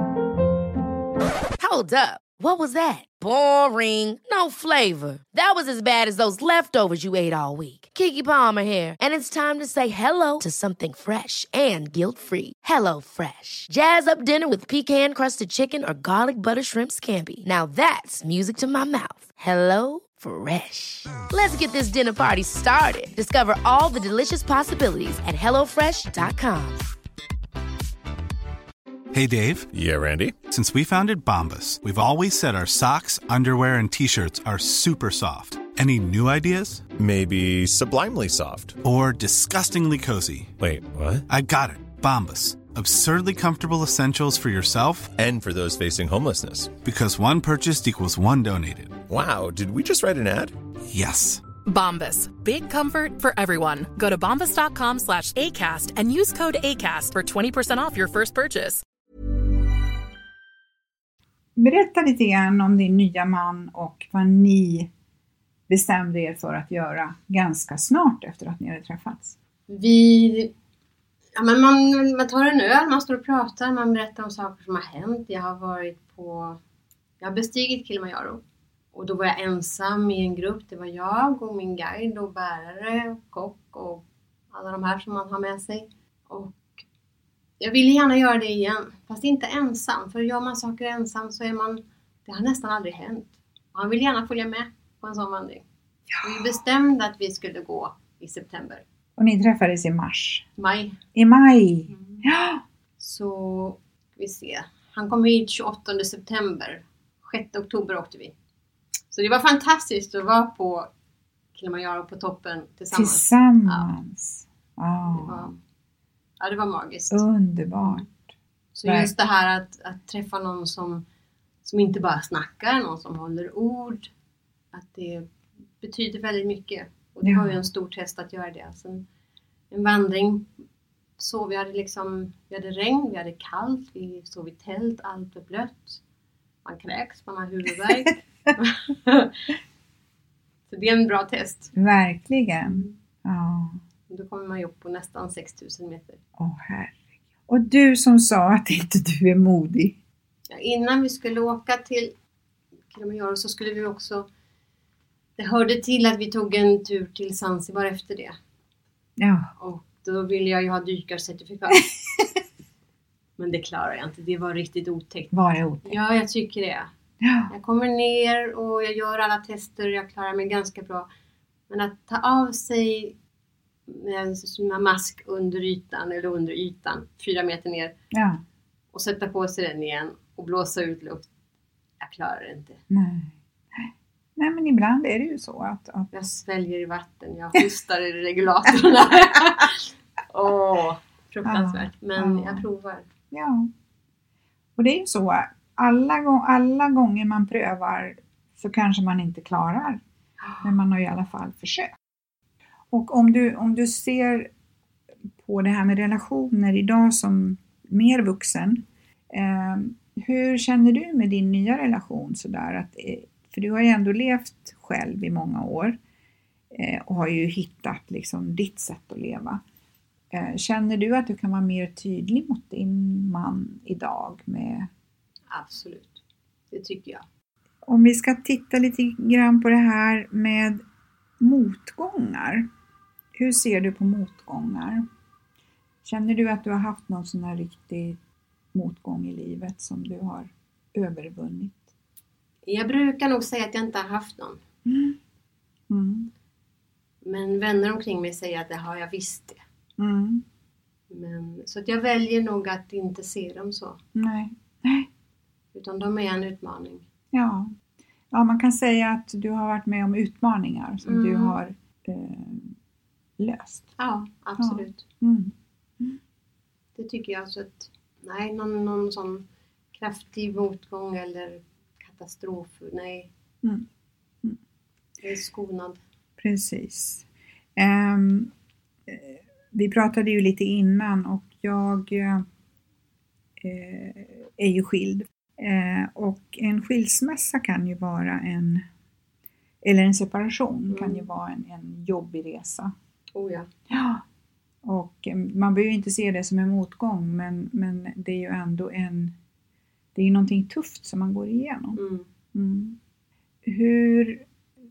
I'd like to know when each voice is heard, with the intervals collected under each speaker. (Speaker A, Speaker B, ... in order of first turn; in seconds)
Speaker A: 1.6-26.8
Speaker B: 29.1-29.7, 30.5-36.8, 38.8-40.5, 41.3-45.1, 46.8-49.0, 50.9-51.4
Speaker C: 29.7-30.4, 37.0-38.8, 40.6-41.3, 45.1-46.8, 49.1-50.5
Speaker D: 51.6-58.8
Speaker E: 61.5-64.9, 65.7-69.3, 96.1-96.5, 99.2-100.5, 101.1-102.6, 112.9-115.5, 117.1-118.2, 118.8-119.1, 127.2-127.6, 141.7-143.8, 146.4-150.0, 159.2-159.5, 165.3-166.0, 167.2-167.5, 178.1-178.4, 182.9-186.1, 191.4-192.7, 193.3-193.7, 194.8-200.0, 200.6-202.0, 202.9-204.5, 205.4-216.0, 216.7-219.6, 220.3-224.9, 227.8-230.8, 231.4-232.7, 233.3-235.1, 236.0-238.2, 238.7-241.9, 244.8-245.2, 245.9-246.3, 250.0-250.4, 254.1-255.1, 257.3-257.7, 258.3-262.8, 263.4-263.9, 264.6-266.2, 276.4-277.2, 277.8-278.5, 279.1-282.4, 283.6-288.8, 289.8-292.9, 293.9-294.2, 294.8-299.3, 300.1-302.0, 302.5-303.0, 303.6-304.4
Speaker F: 69.7-70.5, 71.3-76.6, 77.2-78.4, 78.9-86.8, 87.6-95.6, 96.2-98.8, 100.6-101.0, 101.9-102.2, 103.0-108.3, 109.1-110.9, 111.5-113.9, 115.1-115.6, 116.4-117.2, 118.7-121.0, 121.6-124.1, 124.7-125.3, 125.8-129.0, 129.7-130.5, 131.2-136.0, 136.6-139.5, 140.7-141.7, 142.6-142.9, 144.1-146.2, 150.5-152.1, 152.9-154.3, 155.4-158.3, 159.6-161.9, 163.4-166.9, 167.5-171.1, 171.7-173.1, 173.9-177.9, 178.9-181.3, 182.0-182.8, 186.1-193.1, 225.5-226.2, 226.7-227.2, 242.7-244.6, 247.2-249.6, 251.1-254.0, 255.7-257.0, 261.0-261.6, 264.0-265.0, 266.9-273.3, 275.2-276.0, 290.9-291.3, 293.3-293.7, 301.9-302.3